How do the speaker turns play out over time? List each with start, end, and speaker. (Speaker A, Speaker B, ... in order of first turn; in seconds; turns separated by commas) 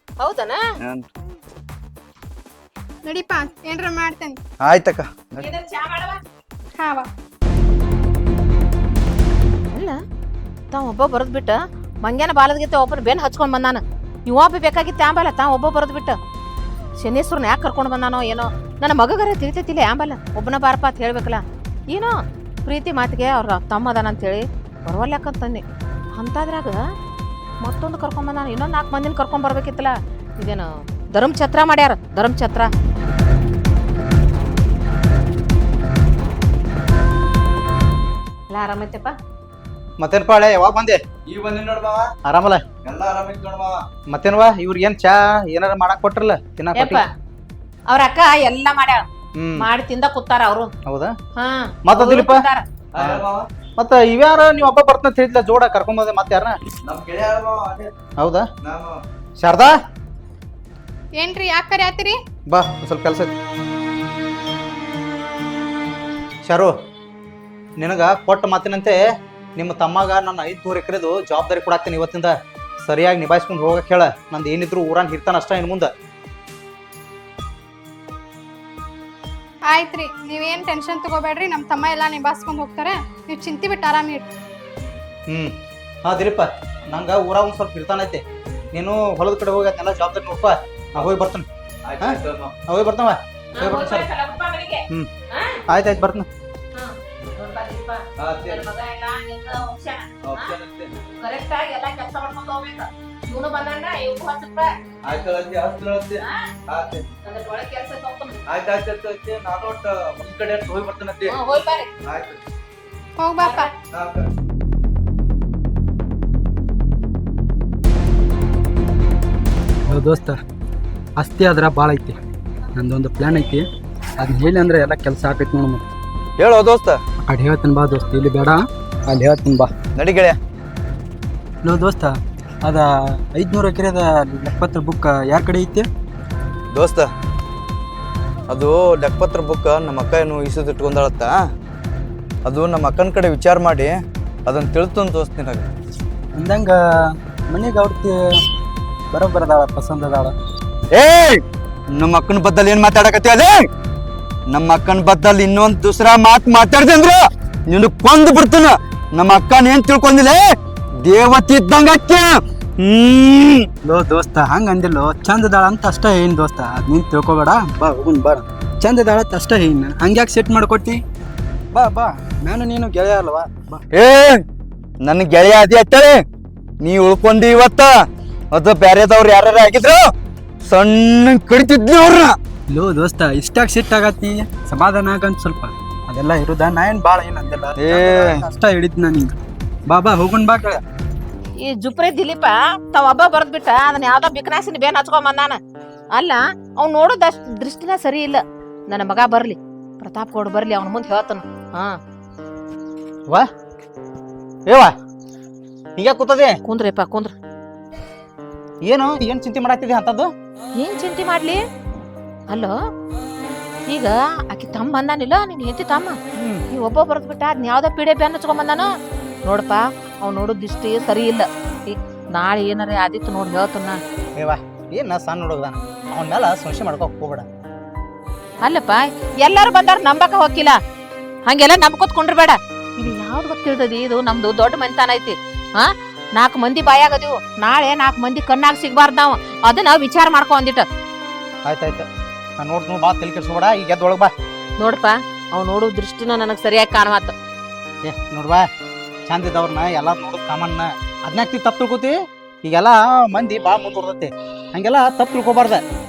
Speaker A: 0.2-0.6, Speaker B: 3.0-4.4, Speaker C: 4.6-5.4, Speaker A: 5.4-6.2, Speaker B: 6.8-7.1, Speaker A: 10.7-16.1, Speaker A: 17.0-22.1, Speaker A: 22.6-25.6, Speaker A: 26.2-26.8, Speaker A: 27.6-32.7, Speaker A: 38.5-39.1, Speaker D: 40.0-41.0, Speaker C: 41.2-42.1, Speaker D: 42.2-42.6, Speaker C: 42.8-43.8, Speaker D: 44.1-47.0, Speaker A: 46.8-47.0, Speaker A: 47.9-49.0, Speaker D: 49.4-49.6, Speaker A: 49.6-50.7, Speaker D: 50.9-51.1, Speaker A: 51.4-52.7, Speaker D: 51.9-52.4, Speaker C: 52.9-53.5, Speaker D: 53.0-53.2, Speaker D: 53.8-56.5, Speaker C: 56.8-57.9, Speaker D: 58.2-58.5, Speaker C: 58.6-59.0, Speaker D: 59.4-59.7, Speaker B: 61.2-62.1, Speaker D: 62.5-63.3, Speaker D: 66.4-66.7, Speaker D: 67.8-69.0, Speaker D: 69.6-75.9, Speaker B: 79.7-84.3, Speaker D: 86.0-91.5, Speaker C: 91.8-92.5, Speaker D: 92.0-94.1, Speaker A: 93.5-95.6, Speaker D: 95.7-96.3, Speaker A: 96.7-100.5, Speaker C: 98.2-98.7, Speaker C: 100.2-100.9, Speaker A: 101.2-104.8, Speaker C: 105.0-107.0, Speaker A: 106.2-106.5, Speaker A: 107.2-108.4, Speaker C: 108.5-111.3, Speaker A: 111.3-111.9, Speaker C: 112.0-112.4, Speaker B: 113.2-113.7, Speaker A: 113.4-113.7, Speaker C: 113.9-114.2, Speaker E: 119.9-120.4, Speaker E: 121.2-122.1, Speaker E: 122.8-123.6, Speaker E: 124.2-125.8, Speaker C: 126.4-127.0, Speaker E: 127.2-129.7, Speaker C: 129.9-130.4, Speaker E: 131.6-135.9, Speaker C: 136.7-137.1, Speaker C: 138.5-141.3, Speaker C: 142.4-145.7, Speaker E: 146.3-146.8, Speaker E: 147.5-148.2, Speaker E: 149.1-150.3, Speaker C: 150.9-151.4, Speaker C: 152.0-153.5, Speaker C: 154.5-157.2, Speaker C: 157.7-160.4, Speaker C: 161.0-163.7, Speaker E: 163.8-171.0, Speaker E: 171.7-173.8, Speaker C: 173.9-174.4, Speaker C: 175.0-176.1, Speaker C: 176.8-177.9, Speaker C: 178.5-180.0, Speaker C: 180.7-182.3, Speaker E: 182.7-189.3, Speaker C: 187.8-188.4, Speaker E: 189.9-190.8, Speaker A: 191.6-195.6, Speaker A: 196.1-202.0, Speaker D: 206.0-206.6, Speaker A: 206.6-207.3, Speaker D: 208.8-210.3, Speaker A: 210.8-211.6, Speaker A: 213.9-216.2, Speaker D: 216.3-216.6, Speaker A: 216.7-218.9, Speaker A: 219.4-224.0, Speaker D: 224.4-227.4, Speaker A: 228.6-230.8, Speaker A: 231.5-240.8, Speaker D: 241.6-242.1, Speaker D: 242.6-244.3, Speaker A: 244.8-247.3, Speaker D: 248.0-248.7, Speaker D: 249.3-255.8